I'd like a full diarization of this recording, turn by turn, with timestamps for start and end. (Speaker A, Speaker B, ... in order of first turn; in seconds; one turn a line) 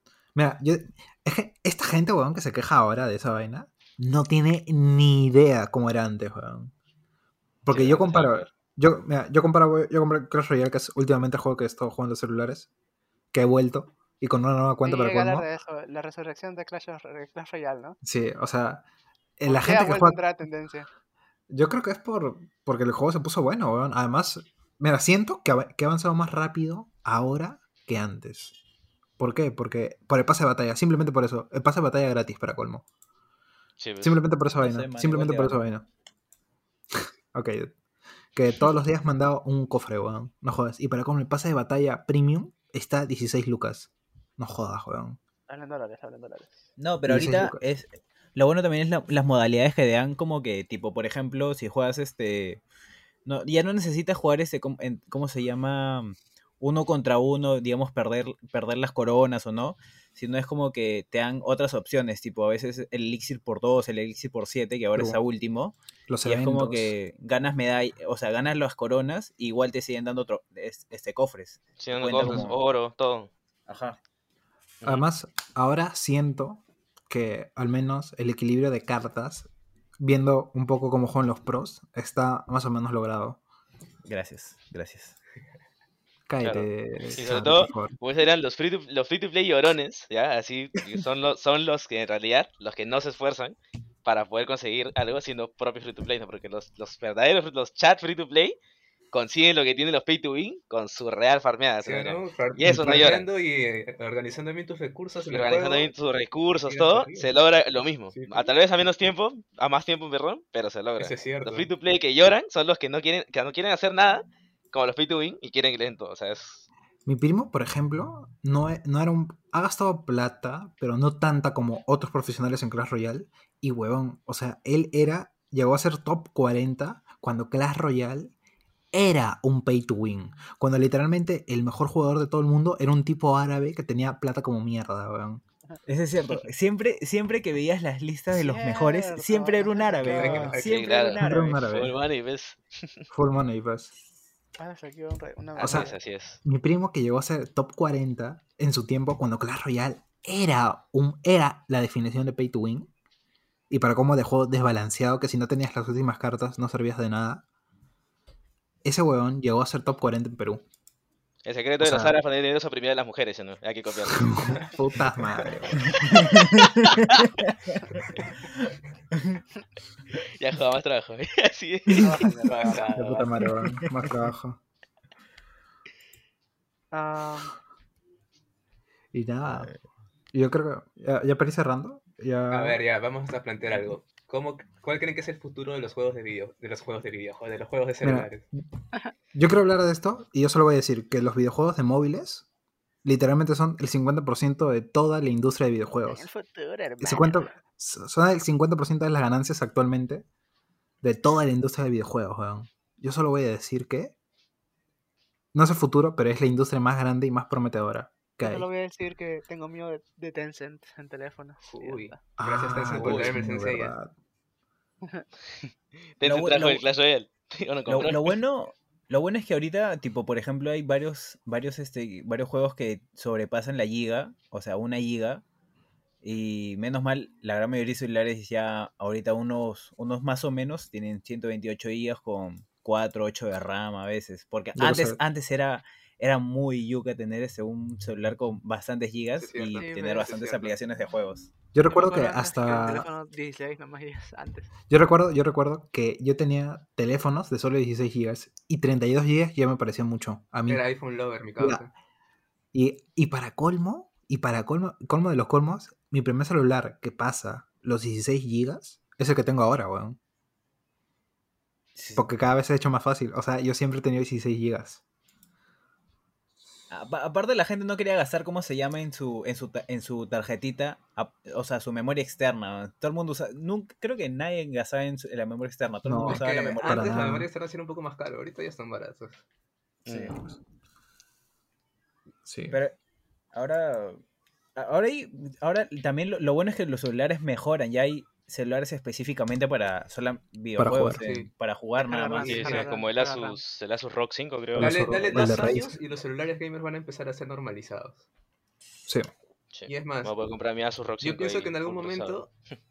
Speaker A: 0.3-6.7
Speaker A: 7.6-12.7
Speaker B: 7.7-8.5
Speaker A: 13.3-15.5
Speaker C: 14.8-18.0
Speaker A: 18.0-18.9
Speaker A: 19.4-20.2
Speaker C: 19.5-20.9
Speaker A: 21.5-28.5
Speaker A: 29.2-32.9
Speaker B: 33.8-34.2
Speaker A: 34.0-35.9
Speaker D: 34.6-35.6
Speaker A: 37.0-37.7
Speaker A: 38.4-45.2
Speaker C: 45.5-46.6
Speaker D: 46.8-52.6
Speaker A: 47.1-47.6
Speaker D: 53.2-72.6
Speaker A: 65.0-65.2
Speaker A: 66.1-66.9
Speaker B: 71.8-73.3
Speaker A: 72.2-72.5
Speaker D: 73.7-74.0
Speaker A: 74.8-79.5
Speaker A: 80.0-83.4
Speaker D: 84.1-85.2
Speaker A: 86.3-87.9
Speaker B: 86.4-98.6
Speaker B: 99.1-103.3
Speaker E: 101.8-105.9
Speaker B: 105.3-116.7
Speaker E: 106.7-107.3
Speaker E: 108.1-108.5
Speaker E: 111.0-111.7
Speaker A: 117.1-128.3
Speaker A: 128.9-135.4
Speaker D: 135.9-141.7
Speaker C: 138.3-140.6
Speaker E: 140.1-140.9
Speaker B: 140.6-143.0
Speaker A: 141.2-141.9
Speaker A: 143.1-143.9
Speaker C: 144.6-146.0
Speaker B: 145.6-146.4
Speaker A: 145.6-145.9
Speaker A: 146.4-152.9
Speaker A: 153.7-157.4
Speaker A: 158.8-160.6
Speaker B: 161.4-164.7
Speaker A: 161.8-162.2
Speaker A: 164.1-166.3
Speaker D: 165.8-167.8
Speaker B: 166.8-167.3
Speaker D: 168.7-169.4
Speaker B: 170.2-172.3
Speaker C: 172.0-172.9
Speaker E: 172.5-173.3
Speaker A: 172.9-174.6
Speaker D: 173.7-174.1
Speaker C: 176.9-177.5
Speaker A: 179.1-179.7
Speaker D: 179.5-179.8
Speaker A: 180.3-182.8
Speaker E: 182.5-188.4
Speaker A: 188.0-188.6
Speaker A: 189.3-192.5
Speaker A: 193.0-196.3
Speaker C: 196.1-197.5
Speaker A: 197.0-200.3
Speaker A: 201.0-204.1
Speaker A: 205.5-208.7
Speaker C: 208.4-212.2
Speaker E: 211.6-213.9
Speaker A: 212.4-214.1
Speaker D: 212.9-213.3
Speaker B: 216.2-218.4
Speaker D: 216.2-216.8
Speaker D: 217.9-225.4
Speaker D: 226.2-241.5
Speaker A: 234.8-235.2
Speaker E: 239.4-240.8
Speaker C: 239.8-240.3
Speaker A: 241.7-243.1
Speaker C: 241.9-244.7
Speaker A: 244.9-250.8
Speaker E: 250.7-251.9
Speaker A: 251.6-251.8
Speaker A: 252.7-260.2
Speaker D: 262.0-262.3
Speaker A: 262.1-265.0
Speaker D: 266.9-277.3
Speaker A: 276.1-277.5
Speaker E: 276.2-279.4
Speaker D: 280.1-280.4
Speaker B: 280.1-280.4
Speaker A: 282.4-282.8
Speaker D: 282.7-283.0
Speaker D: 283.5-284.2
Speaker D: 284.8-292.9
Speaker A: 290.8-291.2
Speaker E: 291.2-291.5
Speaker C: 292.0-293.6
Speaker B: 292.4-295.6
Speaker E: 292.5-292.8
Speaker A: 294.8-295.9
Speaker E: 294.8-298.3
Speaker B: 299.7-302.5
Speaker E: 299.9-300.4
Speaker E: 301.2-302.5